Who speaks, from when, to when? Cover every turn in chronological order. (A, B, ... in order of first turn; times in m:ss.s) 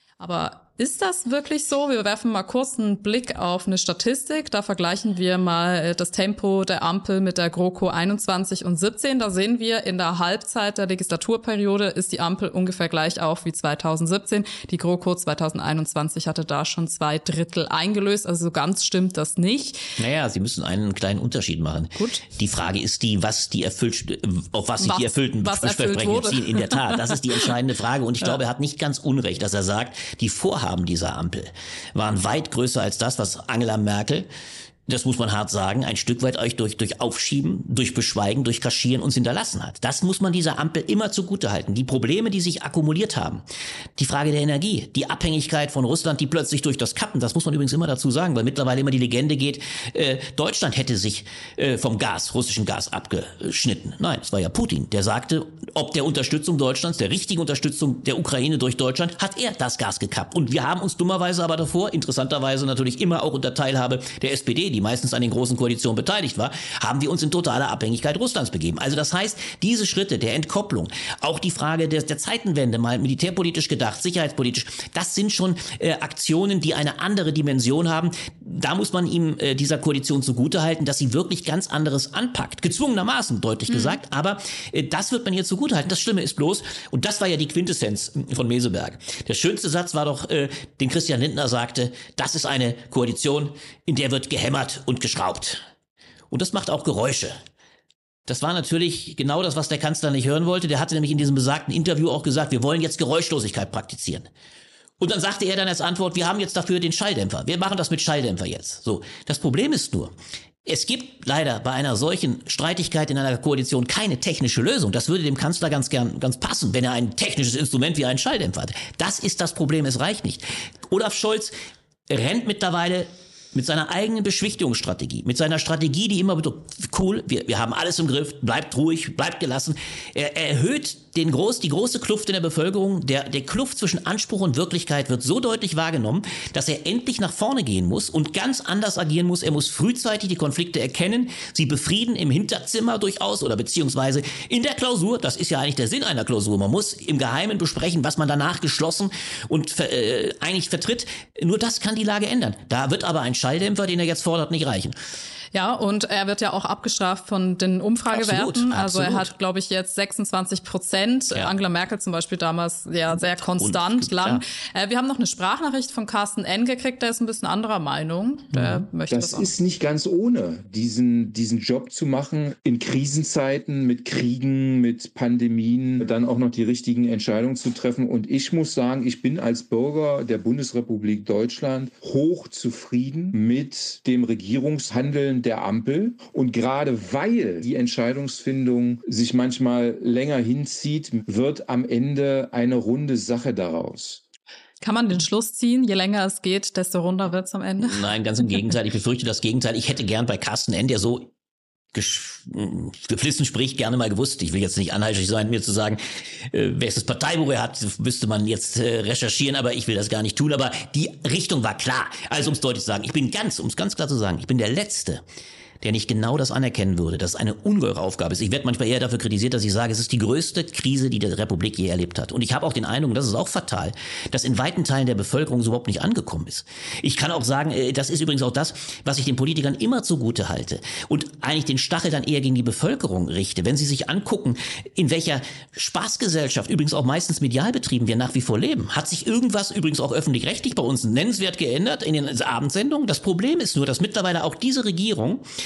0:00.2-0:19.9 A
0:20.0-0:34.3 B
0:22.0-0:22.2 A
0:24.8-0:27.4 A
0:34.9-0:43.4 B
0:44.0-1:35.6 B
1:23.7-1:24.0 A
1:36.3-1:37.3 B
1:38.3-1:44.3 B
1:45.0-1:50.1 B
1:50.6-2:01.5 B
2:02.1-2:35.0 B
2:35.5-2:49.5 A
2:38.1-2:39.3 B
2:43.1-2:44.4 B
2:48.5-2:48.8 B
2:49.1-3:14.2 C
3:14.8-3:18.0 A
3:17.8-3:21.3 B
3:21.9-3:35.2 B
3:35.8-4:05.4 B